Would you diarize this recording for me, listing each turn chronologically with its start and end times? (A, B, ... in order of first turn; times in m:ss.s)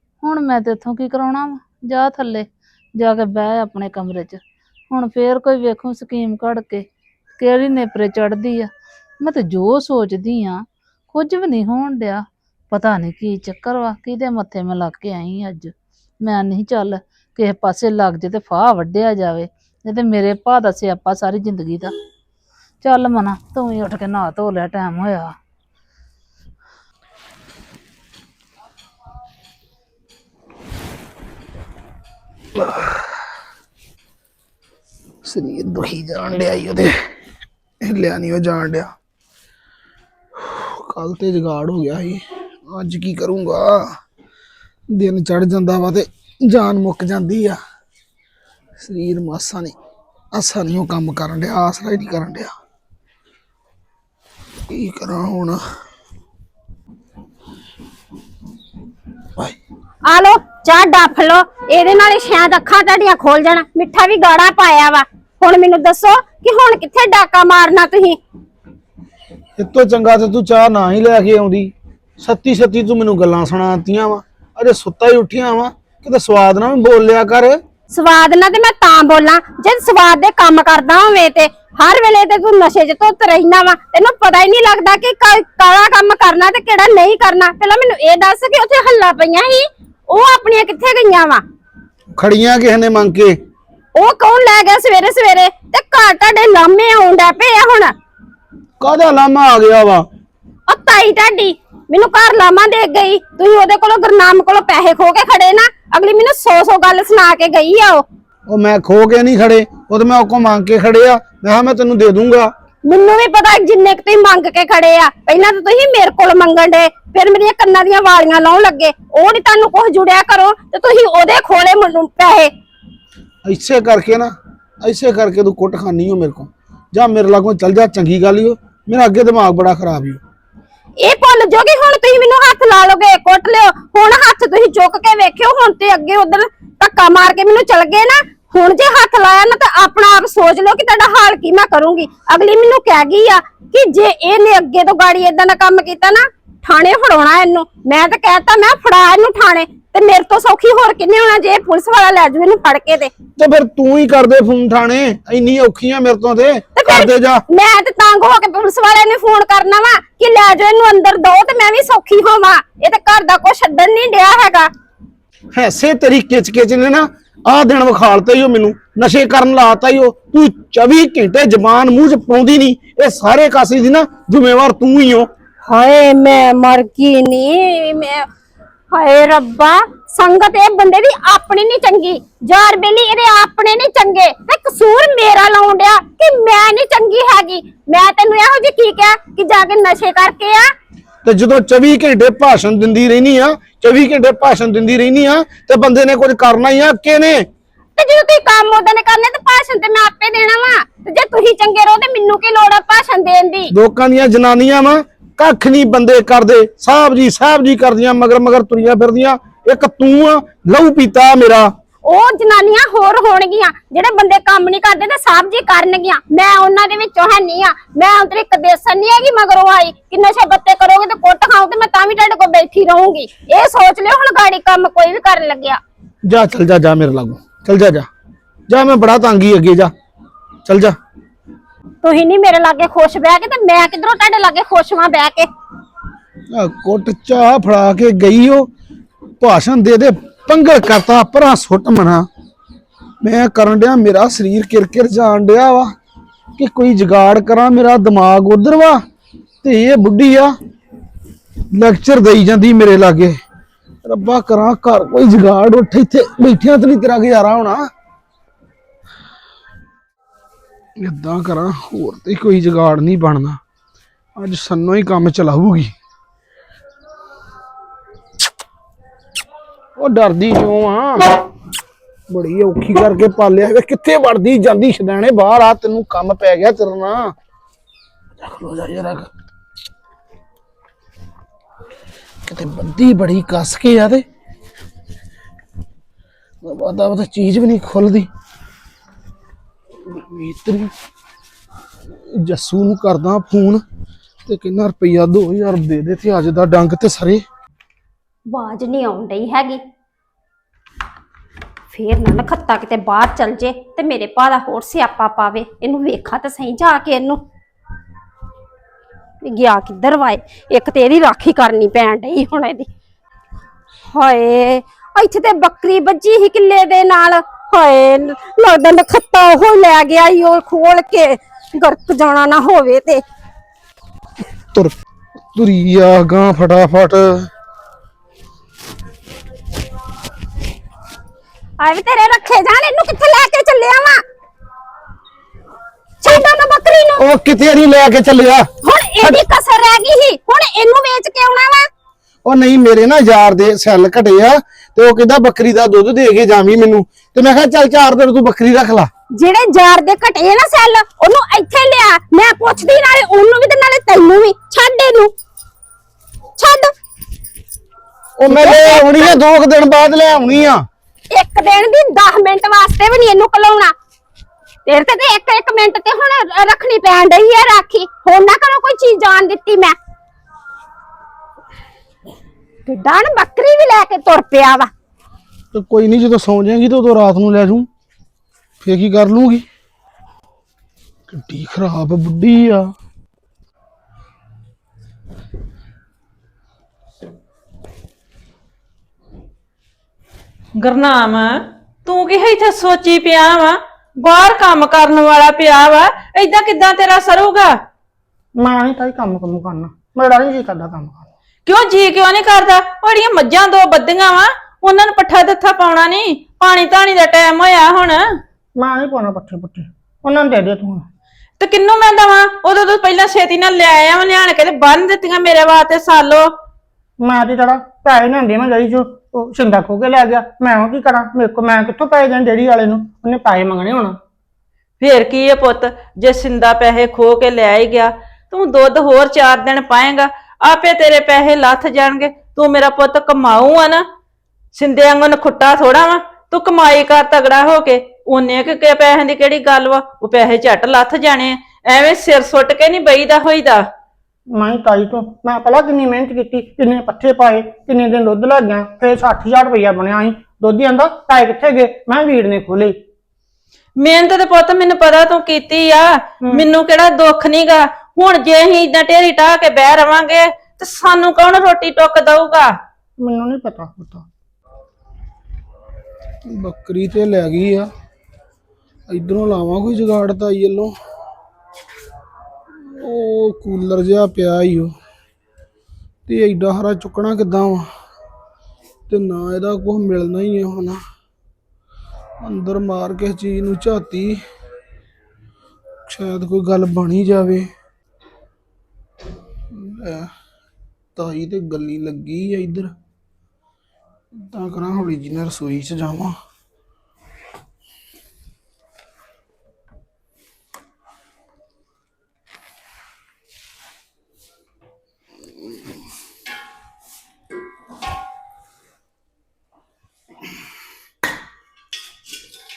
0:00.2-0:06.9 A
0:07.4-0:21.9 A
0:22.8-0:25.4 A
0:32.6-0:33.1 B
0:35.2-0:37.0 B
0:37.8-0:38.9 B
0:40.4-0:43.9 B
0:44.9-0:47.6 B
0:48.8-0:49.8 B
0:50.3-0:52.5 B
0:54.7-0:55.6 B
1:00.1-1:08.2 C
1:09.6-1:17.6 B
1:17.9-1:31.4 C
1:32.2-1:33.4 B
1:34.0-1:37.9 C
1:38.8-1:40.1 B
1:40.7-1:48.1 C
1:48.5-1:52.5 B
1:52.9-2:02.5 C
2:03.5-2:10.2 B
2:11.0-2:33.1 C
2:33.4-2:37.4 B
2:36.8-2:44.7 C
2:45.5-2:55.3 B
2:55.6-2:58.3 C
2:58.9-3:10.7 C
3:11.2-3:17.5 B
3:18.0-3:23.7 C
3:23.7-3:31.7 B
3:32.0-3:45.8 C
3:46.3-3:48.1 B
3:48.7-3:49.9 B
3:50.6-3:51.0 B
3:52.0-3:55.5 C
3:56.5-3:58.7 B
3:59.4-4:02.3 B
4:03.2-4:05.9 B
4:06.6-4:09.0 B
4:09.6-4:10.5 B
4:11.7-4:13.4 B
4:14.0-4:17.9 B
4:21.0-4:23.6 B
4:24.4-4:25.9 B
4:30.0-4:31.3 B
4:32.3-4:37.3 B
4:38.4-4:39.3 B
4:42.4-4:44.3 B
4:46.6-4:48.3 B
4:50.0-4:50.9 B
4:52.3-4:53.8 B
4:54.5-4:57.4 B
4:58.5-4:59.8 C
5:01.9-5:07.4 C
5:09.4-5:12.9 C
5:14.1-5:23.2 C
5:25.5-5:27.5 B
5:31.8-5:34.2 C
5:36.2-5:37.2 C
5:37.2-5:38.7 B
5:38.8-5:41.9 C
5:42.4-5:49.1 B
5:49.4-5:55.3 C
5:56.6-5:56.9 C
5:58.4-6:00.8 B
5:58.5-5:59.4 C
6:01.3-6:03.9 C
6:04.9-6:10.0 C
6:12.9-6:14.9 C
6:15.7-6:17.9 B
6:18.8-6:19.7 B
6:21.3-6:22.9 B
6:30.8-6:37.8 D
6:38.6-6:41.3 E
6:41.7-6:48.2 D
6:48.8-6:51.1 E
6:51.6-6:56.5 D
6:57.2-7:04.2 E
7:05.0-7:14.1 D
7:14.7-7:23.8 D
7:24.6-7:33.0 E
7:34.0-7:42.7 D
7:43.2-7:44.3 E
7:46.5-7:47.9 B
7:49.1-7:50.9 B
7:52.8-7:54.9 B
7:56.3-7:57.9 B
7:59.1-8:01.0 B
8:02.4-8:04.4 B
8:06.1-8:07.7 B
8:09.7-8:10.3 B
8:11.2-8:12.9 B
8:14.5-8:16.4 B